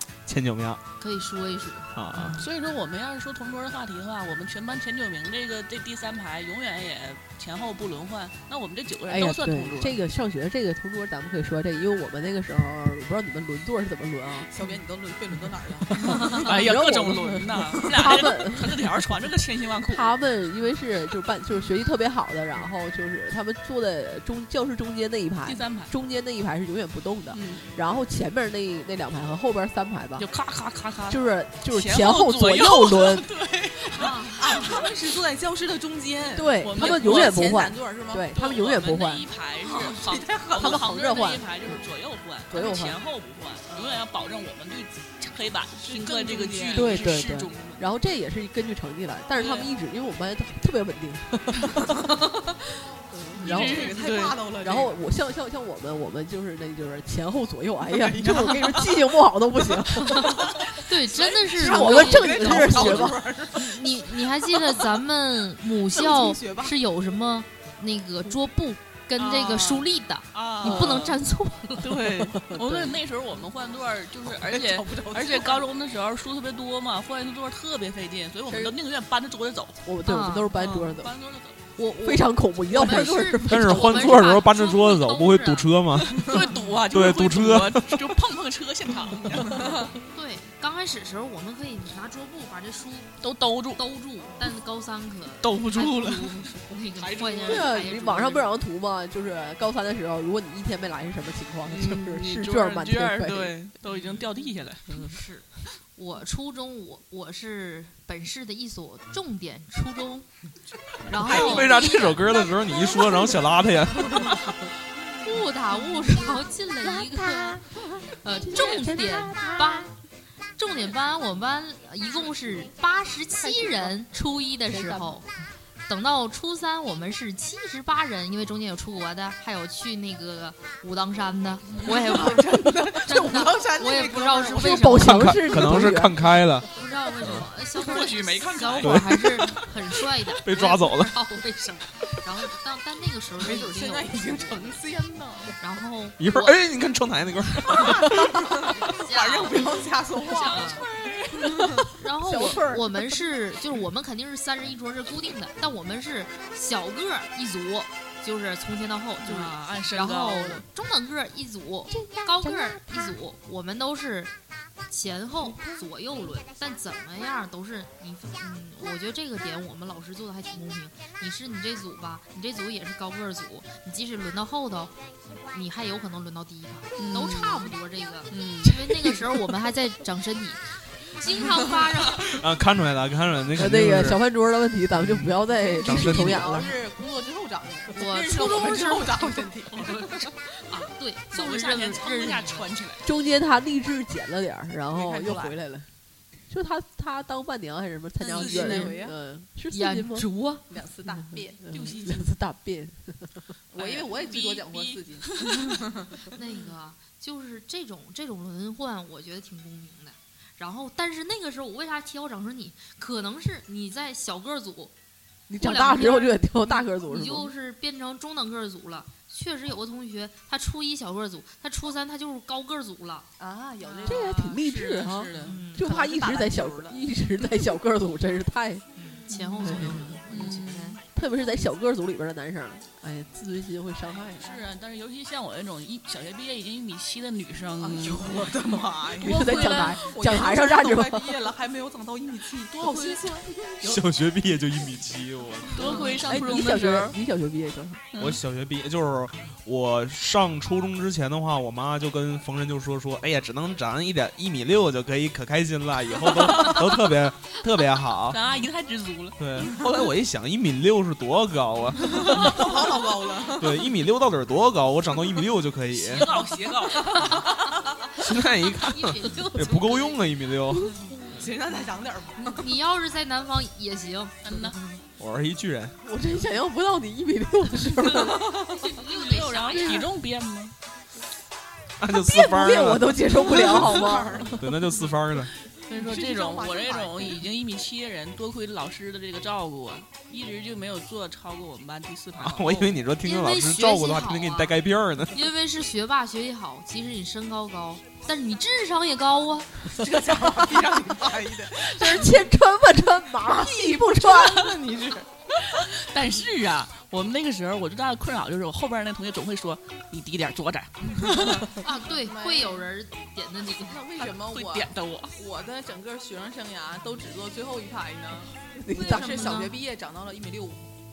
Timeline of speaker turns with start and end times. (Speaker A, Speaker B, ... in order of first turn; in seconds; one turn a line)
Speaker A: 0.3-0.8
Speaker B: 1.0-1.9
Speaker A: 1.9-2.4
Speaker C: 2.1-2.4
Speaker D: 2.3-10.0
Speaker C: 9.1-14.5
Speaker E: 14.5-16.5
Speaker C: 15.9-18.9
Speaker D: 16.2-20.1
Speaker C: 19.9-30.3
Speaker D: 25.4-25.9
Speaker D: 27.3-27.7
Speaker D: 30.2-34.8
Speaker C: 31.1-33.3
Speaker E: 33.8-38.3
Speaker B: 33.9-34.8
Speaker C: 36.3-39.2
Speaker D: 36.6-37.7
Speaker D: 38.3-47.8
Speaker E: 39.7-40.8
Speaker C: 40.5-41.8
Speaker C: 42.5-43.0
Speaker E: 43.7-44.0
Speaker E: 45.8-47.0
Speaker C: 46.7-52.2
Speaker D: 49.3-49.7
Speaker E: 51.9-52.6
Speaker C: 53.1-53.8
Speaker E: 53.4-54.9
Speaker D: 53.4-54.4
Speaker B: 53.5-54.0
Speaker C: 54.6-60.5
Speaker E: 57.9-58.9
Speaker B: 58.2-58.9
Speaker E: 60.1-63.7
Speaker B: 60.1-72.0
Speaker C: 61.5-63.3
Speaker E: 65.9-66.7
Speaker D: 69.2-71.1
Speaker E: 70.4-70.7
Speaker C: 70.6-71.1
Speaker D: 71.8-79.8
Speaker C: 72.2-72.9
Speaker E: 74.3-75.7
Speaker E: 78.5-78.7
Speaker C: 79.8-81.1
Speaker B: 80.0-80.5
Speaker D: 80.5-81.6
Speaker B: 81.8-85.8
Speaker C: 82.0-84.0
Speaker A: 83.5-88.1
Speaker D: 86.1-89.9
Speaker B: 90.1-93.1
Speaker D: 93.2-93.8
Speaker B: 93.7-98.5
Speaker D: 95.4-97.6
Speaker E: 97.2-97.7
Speaker C: 97.4-103.6
Speaker D: 101.7-105.2
Speaker B: 103.9-110.3
Speaker B: 111.0-113.4
Speaker A: 111.1-114.5
Speaker B: 115.1-119.9
Speaker C: 116.0-119.9
Speaker B: 120.5-125.2
Speaker C: 123.4-124.0
Speaker C: 124.7-125.2
Speaker B: 125.9-135.4
Speaker E: 131.7-135.0
Speaker C: 134.5-136.3
Speaker A: 134.9-136.7
Speaker B: 136.6-144.8
Speaker A: 137.2-137.5
Speaker D: 137.7-139.7
Speaker A: 138.8-139.3
Speaker A: 140.4-141.1
Speaker E: 143.4-145.6
Speaker B: 145.6-146.6
Speaker A: 146.2-148.7
Speaker B: 147.7-148.2
Speaker B: 148.8-149.7
Speaker E: 148.8-150.8
Speaker D: 150.2-151.7
Speaker B: 150.4-150.8
Speaker E: 151.4-151.9
Speaker C: 151.7-152.8
Speaker B: 152.0-164.3
Speaker D: 159.2-160.6
Speaker C: 161.9-163.1
Speaker B: 164.9-174.9
Speaker B: 175.5-182.4
Speaker D: 177.0-177.7
Speaker D: 178.3-179.3
Speaker A: 182.1-184.2
Speaker C: 183.6-186.8
Speaker A: 185.8-186.5
Speaker E: 185.8-190.2
Speaker B: 187.9-192.7
Speaker D: 191.3-193.1
Speaker C: 193.0-195.8
Speaker E: 194.9-195.6
Speaker C: 196.5-200.3
Speaker E: 198.2-199.2
Speaker D: 198.3-199.0
Speaker B: 199.7-200.6
Speaker E: 200.7-201.7
Speaker C: 201.7-203.4
Speaker D: 201.7-202.3
Speaker E: 203.7-206.4
Speaker D: 203.7-205.7
Speaker B: 206.3-214.9
Speaker C: 215.5-217.5
Speaker B: 215.6-223.3
Speaker E: 223.4-227.0
Speaker C: 224.0-228.8
Speaker D: 224.4-225.6
Speaker B: 225.4-225.9
Speaker B: 228.9-231.0
Speaker C: 229.6-230.2
Speaker D: 229.7-231.0
Speaker C: 231.1-234.6
Speaker D: 234.4-238.5
Speaker E: 237.8-243.8
Speaker C: 239.2-241.5
Speaker D: 239.2-240.0
Speaker D: 242.7-243.5
Speaker A: 243.8-245.9
Speaker D: 245.7-247.2
Speaker C: 246.2-248.1
Speaker D: 248.1-248.4
Speaker A: 248.2-258.4
Speaker D: 258.3-259.7
Speaker A: 259.4-262.9
Speaker E: 262.2-263.9
Speaker A: 263.5-266.3
Speaker D: 265.9-267.5
Speaker E: 266.9-267.9
Speaker A: 268.2-271.0
Speaker B: 268.2-270.2
Speaker E: 271.3-272.7
Speaker B: 272.4-275.0
Speaker D: 274.4-274.8
Speaker A: 275.2-275.9
Speaker C: 276.0-278.7
Speaker B: 278.3-280.1
Speaker D: 279.1-280.7
Speaker C: 279.8-280.0
Speaker A: 282.0-283.2
Speaker C: 282.1-284.6
Speaker E: 283.4-284.6
Speaker A: 284.5-285.5
Speaker D: 285.9-293.0
Speaker E: 285.9-287.4
Speaker A: 292.4-295.4
Speaker B: 293.2-294.8
Speaker B: 295.3-299.7
Speaker E: 299.9-302.4
Speaker C: 301.7-304.8
Speaker E: 303.4-305.8
Speaker D: 305.7-311.6
Speaker E: 311.2-312.8
Speaker B: 311.5-314.0
Speaker E: 313.8-320.9
Speaker D: 314.2-315.3
Speaker C: 318.8-319.7
Speaker B: 318.9-319.7